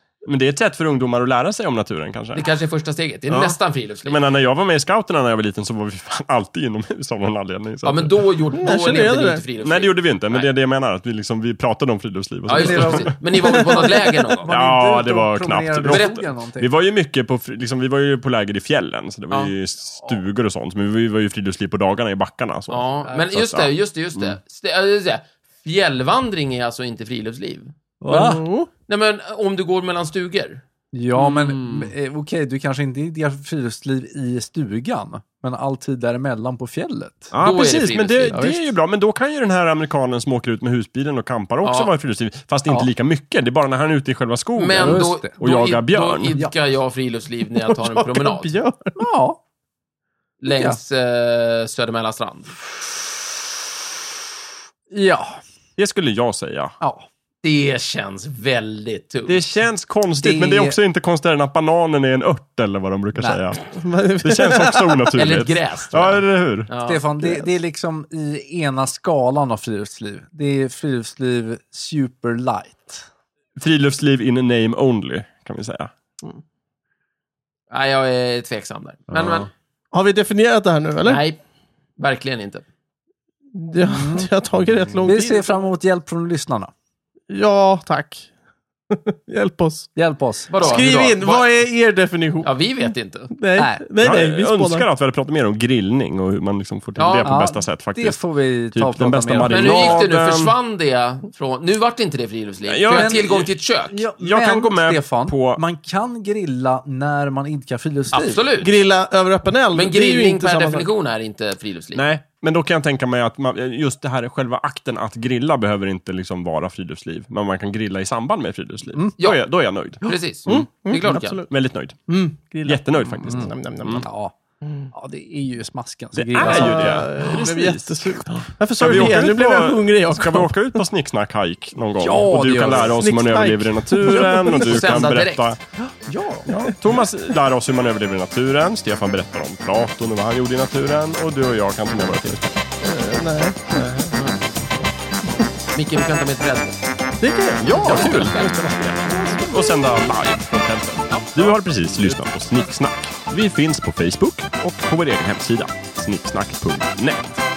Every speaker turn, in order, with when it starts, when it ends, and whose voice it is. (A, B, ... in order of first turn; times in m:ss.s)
0:00.2-0:02.5 A
0:02.3-0:04.2 B
0:03.3-0:08.2 A
0:07.8-0:10.5 B
0:08.6-0:09.4 C
0:09.6-0:13.6 A
0:12.5-0:14.5 B
0:12.6-0:16.7 D
0:14.5-0:24.4 A
0:15.9-0:16.2 B
0:22.7-0:27.7 B
0:28.0-0:28.4 D
0:28.1-0:28.7 C
0:28.9-0:30.6 B
0:30.9-0:37.3 D
0:31.4-0:31.9 A
0:37.3-0:46.4 A
0:37.4-0:38.4 B
0:38.3-0:38.7 D
0:41.6-0:41.9 B
0:44.6-0:48.5 B
0:44.8-0:45.3 D
0:47.7-0:49.0 C
0:49.0-0:49.4 D
0:50.4-0:52.5 B
0:50.5-0:50.8 D
0:54.9-0:55.4 D
0:55.8-0:56.7 A
0:56.8-0:57.0 D
0:57.4-0:59.4 B
0:59.3-1:06.7 A
1:00.2-1:00.8 D
1:03.1-1:03.4 D
1:03.7-1:05.0 C
1:05.2-1:07.0 B
1:06.8-1:13.1 D
1:07.2-1:07.5 C
1:13.6-1:15.9 A
1:17.7-1:19.5 B
1:19.1-1:19.4 A
1:19.9-1:21.2 C
1:21.0-1:21.4 B
1:22.0-1:22.6 B
1:23.6-1:25.5 C
1:23.8-1:24.3 D
1:25.0-1:26.7 D
1:27.3-1:28.3 C
1:28.9-1:29.9 C
1:30.0-1:30.5 D
1:30.5-1:31.5 B
1:30.6-1:34.9 C
1:32.4-1:33.3 B
1:33.6-1:33.9 D
1:34.0-1:40.6 A
1:37.0-1:37.3 B
1:37.2-1:40.0 D
1:39.4-1:44.0 B
1:42.7-1:43.5 A
1:42.9-1:43.4 D
1:43.9-1:48.4 D
1:44.2-1:45.6 A
1:48.1-1:48.8 B
1:48.6-1:50.9 C
1:49.7-1:52.0 B
1:52.0-2:02.1 A
2:00.0-2:01.4 B
2:00.4-2:01.5 C
2:02.1-2:04.1 C
2:02.6-2:04.0 A
2:03.2-2:04.3 D
2:04.9-2:07.1 D
2:06.1-2:15.6 A
2:06.4-2:10.8 C
2:12.0-2:13.0 D
2:12.9-2:15.0 C
2:14.6-2:15.6 B
2:16.0-2:16.5 D
2:16.5-2:22.5 A
2:22.8-2:23.8 C
2:23.7-2:24.1 A
2:24.1-2:24.4 B
2:25.7-2:26.8 B
2:27.2-2:29.5 C
2:27.6-2:37.4 A
2:28.0-2:28.5 B